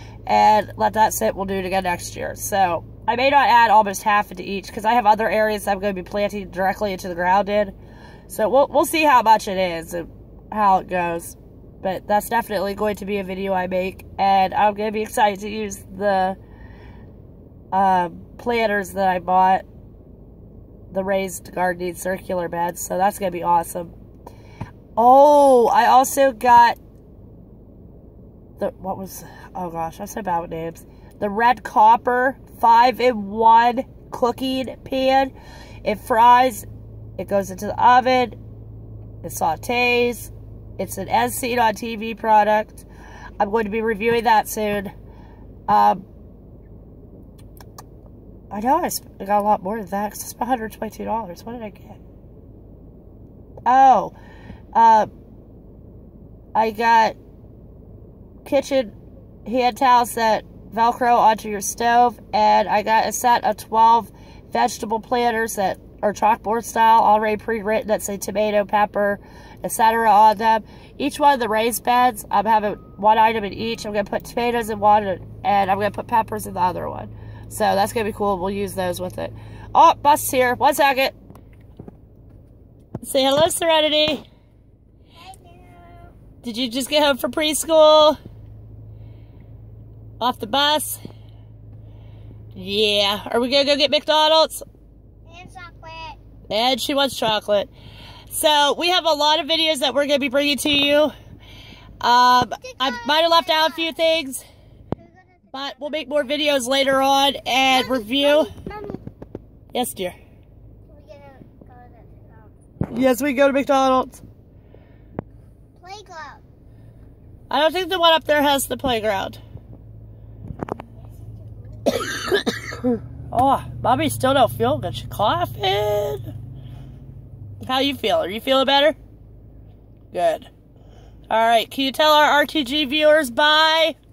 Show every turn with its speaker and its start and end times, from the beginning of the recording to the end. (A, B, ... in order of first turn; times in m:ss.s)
0:00.2-0:07.7 A
0:08.3-0:16.4 A
0:17.7-0:19.6 A
0:20.9-0:23.9 A
0:25.0-0:26.8 A
0:28.6-0:35.3 A
0:35.8-0:36.6 A
0:37.2-0:38.4 A
0:39.2-0:42.9 A
0:43.4-0:44.9 A
0:45.7-0:46.0 A
0:48.5-0:52.0 A
0:53.6-0:54.2 A
0:54.7-0:55.1 A
0:56.5-0:57.2 A
0:58.4-1:21.2 A
1:23.0-1:24.2 A
1:25.2-1:26.1 B
1:26.4-1:28.2 A
1:30.2-1:31.0 A
1:32.5-1:34.6 A
1:35.3-1:36.2 B
1:36.5-1:37.7 A
1:38.3-1:41.1 A
1:42.0-1:44.4 A
1:42.6-1:43.9 B
1:45.0-1:46.2 B
1:45.5-1:48.5 A
1:47.7-1:49.0 B
1:49.7-1:50.2 A
1:50.9-1:52.5 B
1:52.9-1:54.2 A
1:55.8-1:56.4 B
1:57.5-1:59.4 A
2:01.1-2:01.9 B
2:03.3-2:06.3 A
2:07.6-2:09.0 A
2:10.1-2:10.5 A
2:11.3-2:14.0 A